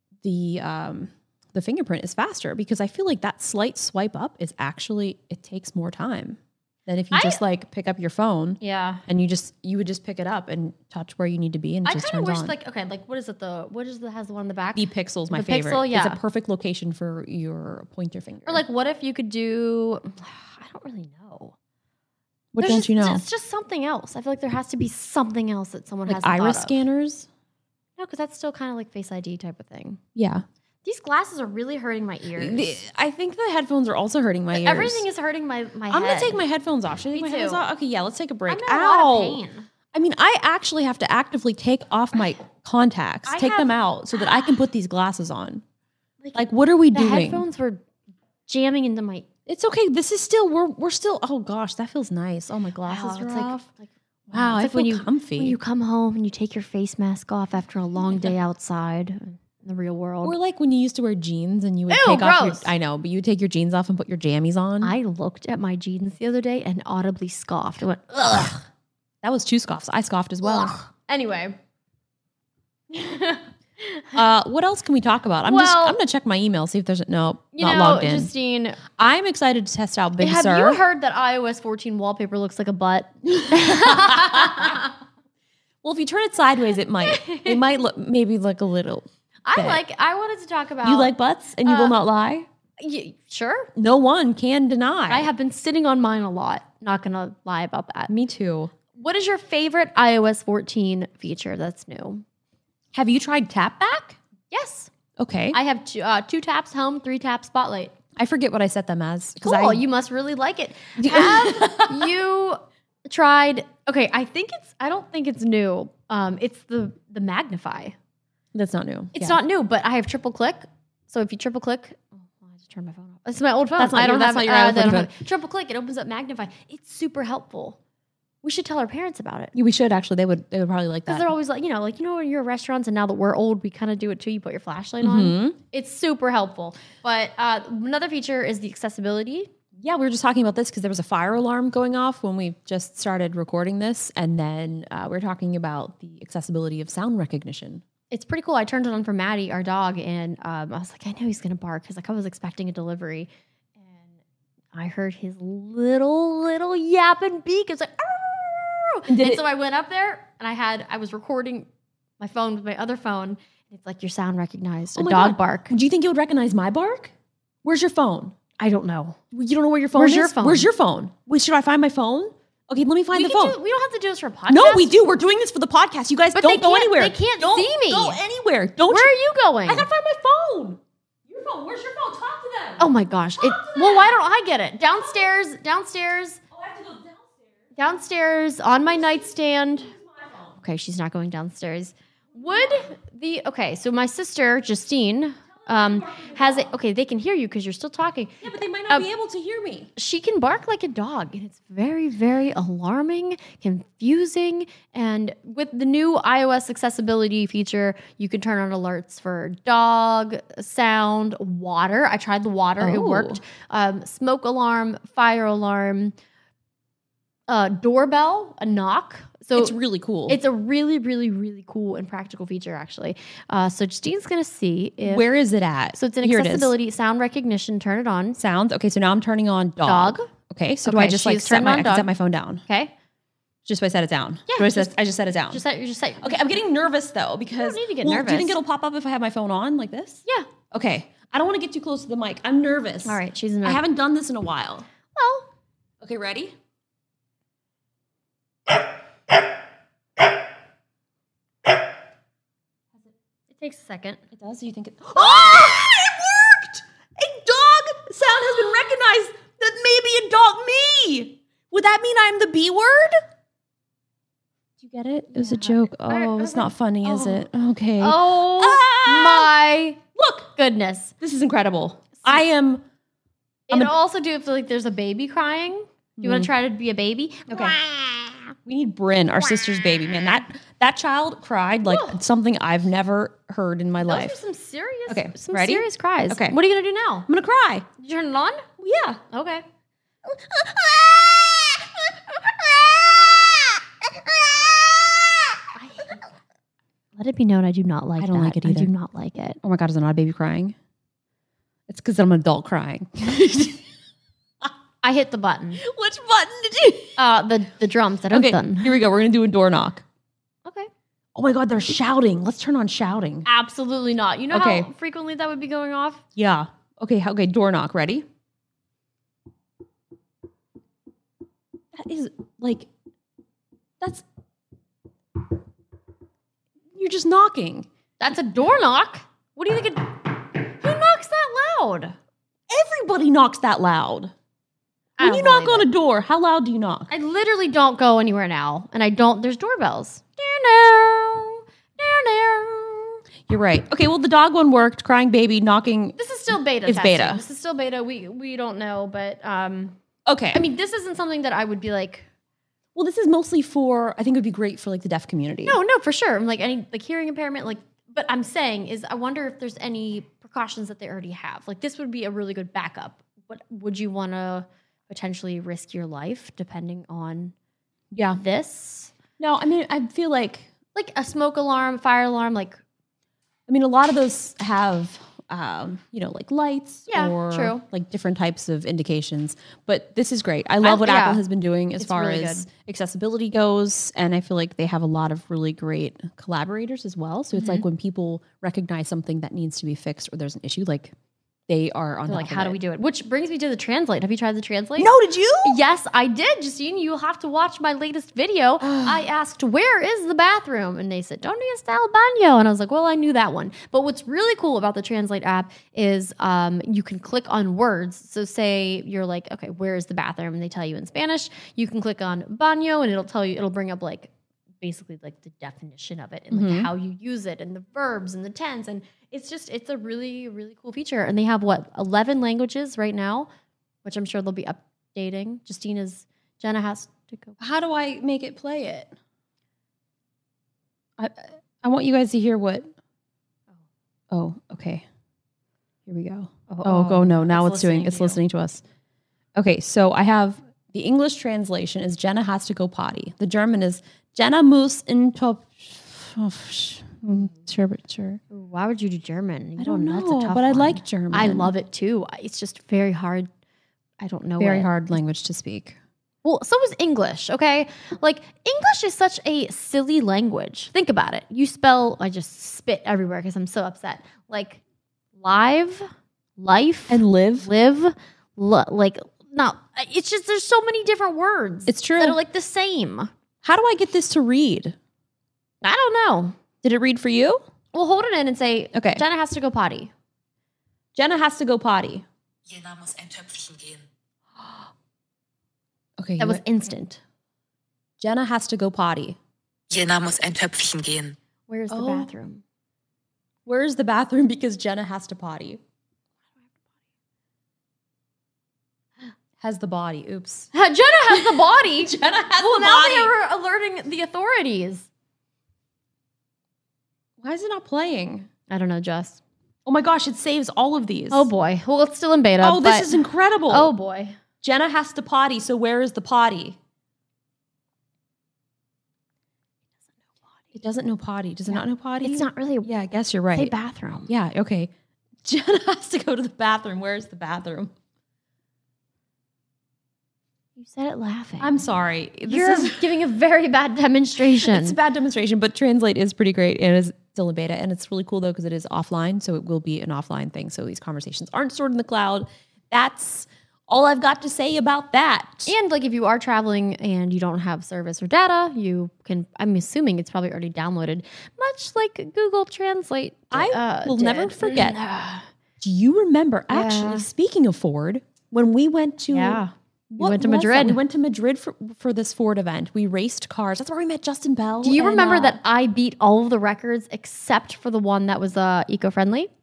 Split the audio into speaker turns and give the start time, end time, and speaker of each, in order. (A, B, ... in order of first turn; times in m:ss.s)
0:00.2-0:12.5 A
0:07.1-0:07.4 B
0:08.6-0:09.0 B
0:11.8-0:16.2 B
0:14.8-0:18.6 A
0:18.4-0:21.6 B
0:22.5-0:23.2 A
0:22.6-0:26.8 B
0:26.0-0:27.3 A
0:28.0-0:30.0 B
0:30.2-0:30.4 A
0:30.8-0:32.8 B
0:32.4-0:35.0 A
0:34.5-0:36.4 B
0:35.9-0:39.4 A
0:37.1-0:37.6 B
0:38.5-0:39.7 B
0:39.9-0:45.6 A
0:43.3-0:43.7 B
0:46.2-0:47.8 B
0:46.3-0:47.4 A
0:48.5-0:49.3 B
0:49.5-0:53.6 A
0:52.8-1:00.4 B
0:54.3-0:55.6 A
1:00.2-1:04.9 A
1:01.9-1:02.7 B
1:04.8-1:08.7 B
1:09.2-1:10.8 A
1:10.4-1:11.6 B
1:12.9-1:14.1 B
1:14.1-1:18.3 A
1:15.4-1:16.0 B
1:17.6-1:18.8 B
1:18.9-1:20.8 A
1:20.2-1:24.9 B
1:23.3-1:24.8 A
1:25.8-1:29.8 A
1:27.0-1:27.6 B
1:29.4-1:31.1 B
1:30.8-1:32.5 A
1:31.6-1:32.0 B
1:32.8-1:33.7 B
1:33.8-1:35.3 A
1:35.1-1:38.1 B
1:38.1-1:38.7 A
1:38.9-1:42.2 B
1:42.9-1:44.2 A
1:44.5-1:44.9 B
1:45.2-1:45.6 A
1:45.5-1:48.0 B
1:48.2-1:49.8 A
1:49.4-1:58.0 B
1:51.0-1:52.1 A
1:58.5-1:59.4 A
1:59.1-2:07.8 B
2:03.8-2:05.1 A
2:08.4-2:09.5 B
2:09.5-2:11.3 A
2:11.1-2:19.5 B
2:15.0-2:15.6 A
2:19.8-2:27.8 A
2:28.1-2:34.2 B
2:34.7-2:41.7 B
2:39.1-2:39.4 A
2:42.2-2:45.7 B
2:45.0-2:47.1 A
2:47.6-2:48.4 A
2:48.6-2:49.2 B
2:49.3-2:53.6 A
2:50.0-2:50.7 B
2:53.1-2:54.9 B
2:54.5-2:59.1 A
2:56.3-2:58.2 B
2:58.9-2:59.9 B
2:59.7-3:04.1 A
3:02.8-3:06.4 B
3:06.5-3:07.5 A
3:07.8-3:09.9 B
3:09.9-3:10.6 A
3:10.6-3:19.1 B
3:15.6-3:16.7 A
3:18.4-3:19.9 A
3:20.0-3:36.1 B
3:32.8-3:33.4 A
3:37.5-3:39.8 B
3:39.6-3:40.4 A
3:40.3-3:45.3 B
3:45.0-3:46.7 A
3:46.0-3:48.4 B
3:48.4-3:52.6 A
3:49.9-3:50.3 B
3:50.8-3:52.1 B
3:52.7-3:52.9 B
3:53.6-3:55.6 A
3:54.5-3:54.9 B
3:55.5-3:56.4 B
3:56.2-4:04.9 A
3:57.5-3:58.6 B
4:03.0-4:03.8 B
4:05.1-4:05.5 B
4:06.0-4:06.5 A
4:13.5-4:14.2 B
4:14.3-4:23.2 A
4:24.8-4:29.5 A
4:25.3-4:27.4 B
4:28.0-4:30.0 B
4:30.2-4:30.5 A
4:30.6-4:31.1 B
4:31.2-4:32.8 A
4:33.7-4:38.4 B
4:36.2-4:36.5 A
4:37.5-4:37.8 A
4:38.6-4:44.4 A
4:41.8-4:42.2 B
4:44.0-4:47.3 B
4:45.1-4:46.6 A
4:47.3-4:47.9 A
4:48.0-4:48.7 B
4:48.8-4:49.2 A
4:49.3-4:49.6 B
4:50.3-4:51.9 A
4:52.5-4:55.6 A
4:55.7-4:56.2 B
4:57.2-4:59.6 B
4:58.2-4:58.9 A
4:59.6-5:00.8 A
5:01.9-5:03.8 A
5:05.0-5:05.8 B
5:05.8-5:07.2 A
5:07.2-5:09.0 B
5:08.3-5:10.0 A
5:11.4-5:13.5 A
5:13.4-5:16.2 B
5:14.5-5:14.9 A
5:16.4-5:18.3 A
5:21.9-5:22.9 A
5:24.0-5:24.2 A
5:26.9-5:27.9 A
5:28.2-5:32.2 B
5:32.7-5:34.3 A
5:35.2-5:35.9 B
5:35.2-5:37.1 A
5:37.1-5:43.2 B
5:43.5-5:47.4 A
5:46.2-5:50.0 B
5:50.3-5:50.6 A
5:50.5-5:52.3 B
5:53.0-5:55.8 A
5:55.7-6:07.5 B
6:08.1-6:08.4 A
6:08.4-6:09.1 B
6:09.4-6:10.7 A
6:11.0-6:12.8 B
6:13.7-6:31.1 A
6:17.1-6:17.8 B
6:20.8-6:21.4 B
6:22.0-6:22.7 B
6:27.6-6:27.8 B
6:31.7-6:32.8 A
6:32.3-6:35.1 B
6:35.0-6:35.8 A
6:35.6-7:03.5 B
6:38.8-6:39.2 A
6:56.5-6:56.9 A
7:04.0-7:07.6 B
7:07.6-7:09.1 A
7:11.2-7:12.9 A
7:14.3-7:15.0 A
7:16.0-7:18.8 A
7:16.7-7:18.4 B
7:19.6-7:28.4 A
7:28.5-7:33.5 B
7:29.8-7:31.7 A
7:34.2-7:34.9 B
7:34.6-7:36.0 A
7:36.4-7:44.8 B
7:45.4-7:53.3 B
7:47.1-7:47.7 A
7:51.9-7:52.4 A
7:53.6-7:55.0 A
7:55.8-7:56.6 B
7:56.8-7:57.6 A
7:57.9-8:00.1 B
7:58.9-7:59.2 A
8:01.1-8:02.2 A
8:02.7-8:04.0 C
8:06.2-8:06.6 A
8:06.4-8:07.2 B
8:08.2-8:09.4 A
8:09.9-8:11.4 C
8:11.7-8:12.6 B
8:11.9-8:12.3 A
8:13.7-8:15.8 A
8:19.6-8:20.7 A
8:20.7-8:25.1 B
8:21.3-8:23.3 A
8:27.4-8:28.5 A
8:28.7-8:29.4 B
8:29.9-8:31.5 A
8:31.3-8:33.2 B
8:32.6-8:33.9 A
8:33.7-8:34.4 B
8:34.6-8:36.8 A
8:40.7-8:43.7 A
8:41.7-8:42.9 B
8:43.6-8:44.3 B
8:44.3-8:44.9 A
8:45.4-8:47.9 A
8:50.8-8:51.7 B
8:51.6-8:53.1 A
8:52.5-8:55.0 B
8:54.6-9:05.7 A
9:05.7-9:15.5 B
9:13.5-9:15.0 A
9:15.8-9:25.6 A
9:16.7-9:17.3 B
9:19.3-9:21.0 B
9:24.8-9:29.5 B